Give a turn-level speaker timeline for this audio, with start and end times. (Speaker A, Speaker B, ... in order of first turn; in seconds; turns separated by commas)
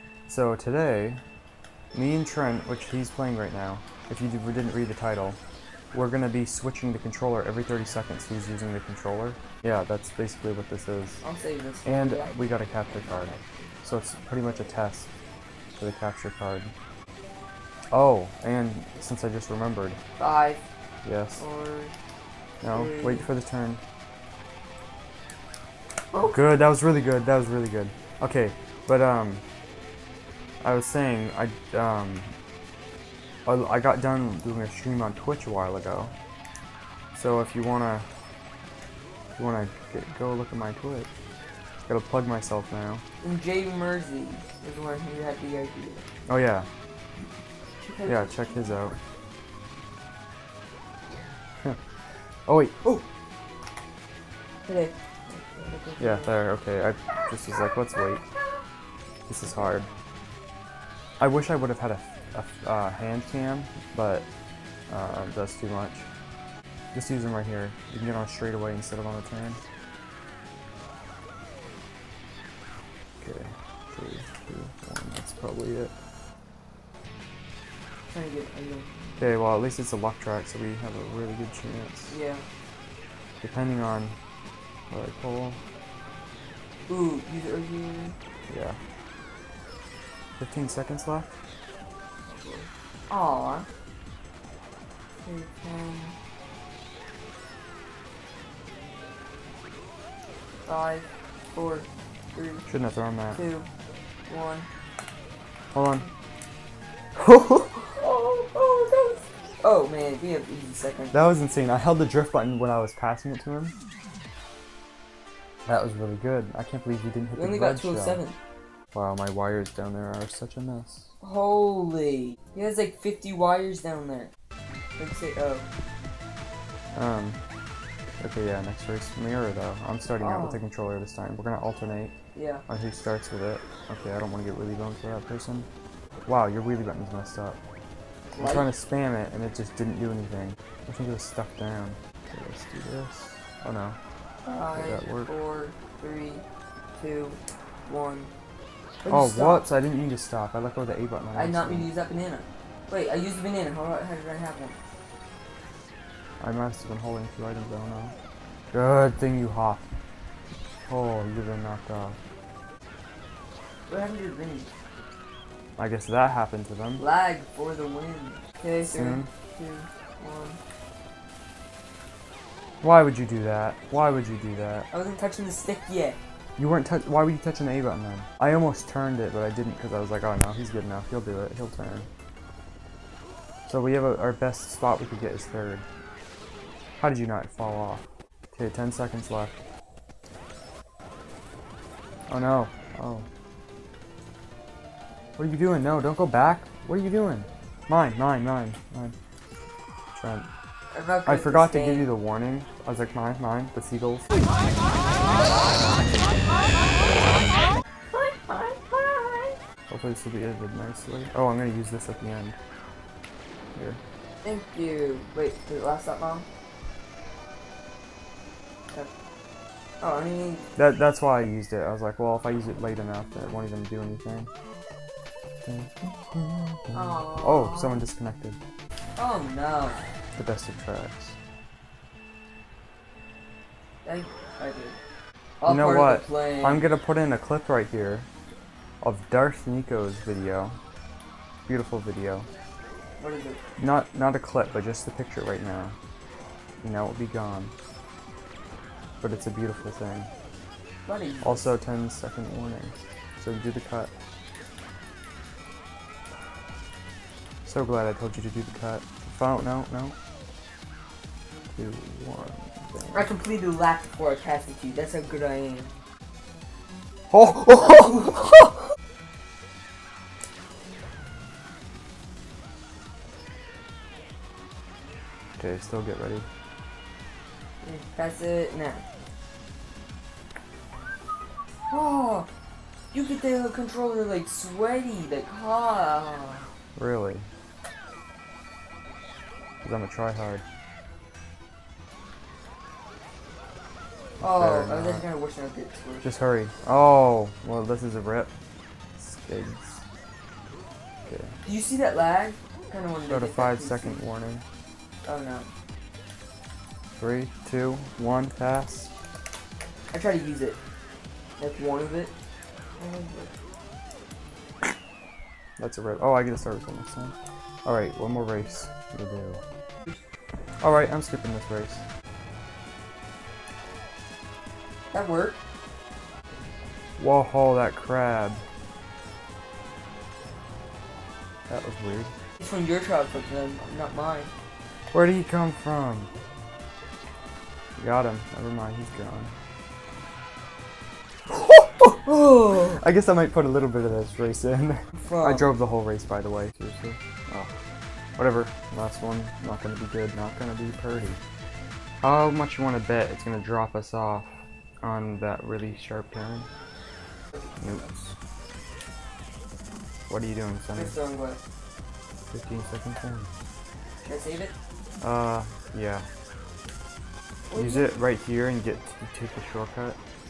Speaker A: 0.3-1.2, Speaker A: 1.9-5.4, Speaker A: 5.9-11.2, Speaker B: 11.2-13.7, Speaker A: 11.8-15.1, Speaker A: 15.8-16.7, Speaker A: 17.9-20.0, Speaker B: 20.2-20.6, Speaker A: 21.0-21.4, Speaker B: 21.4-21.9, Speaker A: 22.6-23.8, Speaker B: 22.7-23.3, Speaker A: 26.2-29.4, Speaker A: 30.6-32.3, Speaker A: 33.5-36.1, Speaker A: 37.1-38.1, Speaker A: 39.4-41.1, Speaker A: 41.8-43.0, Speaker B: 43.2-46.0, Speaker A: 46.3-46.7, Speaker B: 47.8-48.5, Speaker A: 48.0-49.0, Speaker A: 52.5-53.0, Speaker B: 54.7-56.4, Speaker A: 56.0-58.2, Speaker A: 59.3-59.9, Speaker B: 59.5-59.7, Speaker A: 61.2-64.3, Speaker A: 64.9-66.1, Speaker A: 66.9-69.6, Speaker A: 73.2-75.9, Speaker B: 78.1-78.9, Speaker A: 79.2-82.2, Speaker B: 82.1-82.5, Speaker A: 83.4-84.2, Speaker A: 84.9-85.6, Speaker B: 86.9-88.2, Speaker A: 88.5-88.8, Speaker A: 90.4-91.3, Speaker B: 92.3-93.7, Speaker B: 95.2-96.2, Speaker B: 100.7-102.7, Speaker A: 102.7-103.4, Speaker B: 103.3-103.7, Speaker B: 104.3-104.7, Speaker A: 105.7-106.1, Speaker A: 107.2-108.0, Speaker B: 108.0-111.2, Speaker A: 111.1-113.8, Speaker A: 115.7-118.2, Speaker B: 117.3-118.4, Speaker A: 118.9-121.1, Speaker B: 121.2-124.3, Speaker B: 125.0-125.7, Speaker A: 127.0-127.4, Speaker A: 128.2-132.1, Speaker B: 130.2-130.6, Speaker B: 132.3-132.6, Speaker A: 132.7-135.7, Speaker A: 136.2-137.6, Speaker B: 138.3-138.7, Speaker A: 138.4-144.0, Speaker B: 144.4-146.4, Speaker A: 144.7-145.3, Speaker B: 147.0-148.3, Speaker B: 149.0-149.7, Speaker A: 149.1-151.9, Speaker B: 151.3-154.8, Speaker A: 156.4-158.2, Speaker A: 158.7-159.9, Speaker A: 160.8-162.2, Speaker B: 163.9-164.7, Speaker A: 165.8-167.1, Speaker B: 167.0-170.6, Speaker A: 168.8-169.3, Speaker A: 172.8-174.9, Speaker B: 174.9-176.2, Speaker A: 176.6-182.1, Speaker A: 183.7-185.8, Speaker A: 187.0-189.6, Speaker A: 192.3-193.3, Speaker A: 195.4-199.2, Speaker A: 200.1-200.5, Speaker B: 200.9-202.1, Speaker A: 201.2-204.3, Speaker B: 208.1-209.6, Speaker A: 209.9-212.6, Speaker A: 213.8-214.0, Speaker B: 214.4-216.5, Speaker B: 220.0-220.7, Speaker A: 220.8-224.5, Speaker A: 225.7-228.6, Speaker B: 226.9-228.1, Speaker B: 229.2-230.0, Speaker A: 230.4-231.4, Speaker B: 234.0-235.0, Speaker B: 235.6-236.9, Speaker A: 235.7-238.3, Speaker A: 239.0-240.8, Speaker A: 241.7-242.5, Speaker B: 243.2-243.6, Speaker A: 243.8-245.9, Speaker A: 246.8-247.7, Speaker A: 249.2-250.3, Speaker B: 251.1-251.7, Speaker A: 251.4-254.1, Speaker A: 257.6-260.2, Speaker A: 261.8-263.3, Speaker B: 263.1-265.9, Speaker A: 267.3-268.7, Speaker A: 275.6-276.5, Speaker B: 277.8-279.0, Speaker B: 281.9-282.5, Speaker B: 283.1-286.7, Speaker A: 287.0-287.5, Speaker A: 289.8-290.6, Speaker A: 294.4-295.3, Speaker B: 294.4-296.3, Speaker A: 296.2-298.5, Speaker A: 299.2-300.0, Speaker A: 301.3-301.6, Speaker B: 301.6-304.2, Speaker A: 303.2-304.6, Speaker B: 305.2-305.7, Speaker A: 307.2-309.1, Speaker B: 310.1-310.8, Speaker B: 311.6-312.3, Speaker B: 313.0-313.5, Speaker A: 315.8-319.6, Speaker A: 320.8-322.0, Speaker B: 325.1-325.6, Speaker A: 327.2-328.6, Speaker A: 331.7-332.3, Speaker B: 332.6-334.5, Speaker A: 335.1-336.3, Speaker A: 338.0-339.5, Speaker A: 341.5-347.7, Speaker B: 342.4-343.0, Speaker B: 345.1-345.7, Speaker A: 348.4-351.4, Speaker A: 352.2-354.5, Speaker A: 355.0-356.7, Speaker A: 357.8-358.3, Speaker A: 360.3-361.2, Speaker B: 360.9-361.6, Speaker A: 362.5-363.5, Speaker B: 364.2-364.7, Speaker A: 365.2-366.3, Speaker B: 367.7-368.2, Speaker A: 367.7-370.2